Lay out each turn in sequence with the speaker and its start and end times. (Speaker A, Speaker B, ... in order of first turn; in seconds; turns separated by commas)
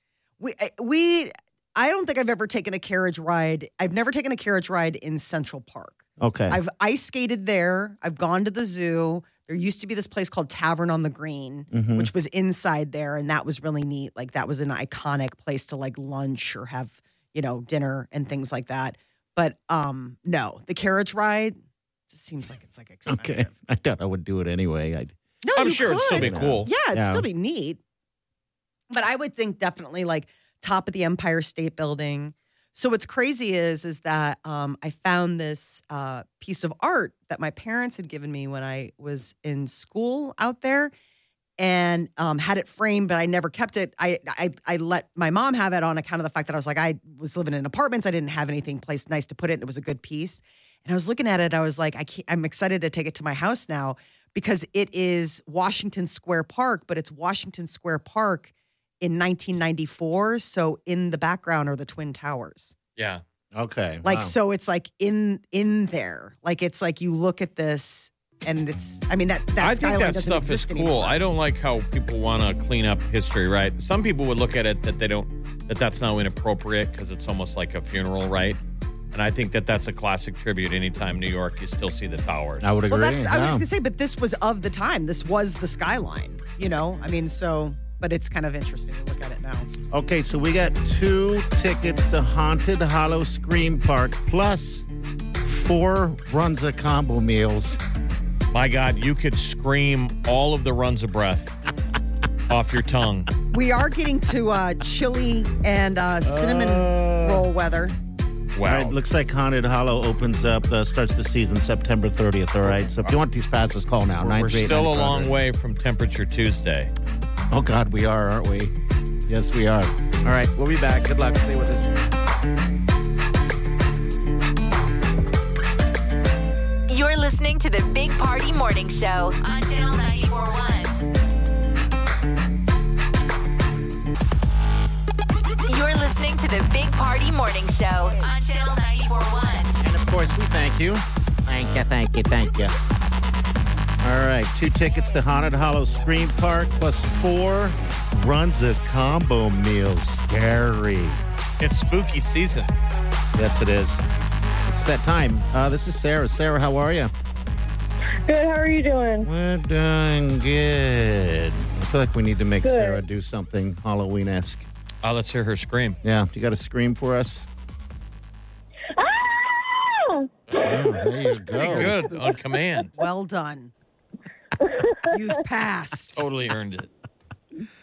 Speaker A: 0.4-21.6, Speaker B: 6.2-6.6, Speaker B: 11.7-12.1, Speaker A: 22.1-23.5, Speaker B: 23.1-25.1, Speaker A: 25.4-27.8, Speaker C: 25.6-26.7, Speaker B: 25.7-27.3, Speaker A: 28.9-40.9, Speaker A: 41.6-62.8, Speaker C: 63.0-63.2, Speaker B: 63.5-64.3, Speaker A: 64.0-71.2, Speaker C: 69.6-78.6, Speaker C: 79.1-82.7, Speaker B: 82.6-83.7, Speaker A: 82.9-89.7, Speaker B: 89.9-94.9, Speaker B: 95.4-97.8, Speaker C: 98.5-101.6, Speaker C: 102.5-103.3, Speaker A: 103.5-108.0, Speaker B: 106.2-107.5, Speaker C: 108.5-109.0, Speaker B: 108.7-115.4, Speaker C: 112.7-113.2, Speaker C: 114.2-116.9, Speaker B: 117.5-118.7, Speaker B: 119.3-122.0, Speaker D: 126.9-131.0, Speaker D: 135.7-139.7, Speaker B: 139.8-142.7, Speaker B: 144.0-151.2, Speaker C: 151.6-152.7, Speaker B: 153.3-154.0, Speaker B: 154.7-157.1, Speaker E: 158.2-159.3, Speaker B: 159.2-164.7, Speaker E: 162.6-163.0, Speaker C: 165.0-166.0, Speaker B: 166.0-167.5, Speaker E: 168.9-171.6, Speaker C: 170.5-170.8, Speaker B: 170.6-172.1, Speaker C: 171.6-172.9, Speaker A: 173.0-173.7, Speaker E: 174.6-175.2, Speaker A: 175.1-176.3, Speaker C: 176.2-176.9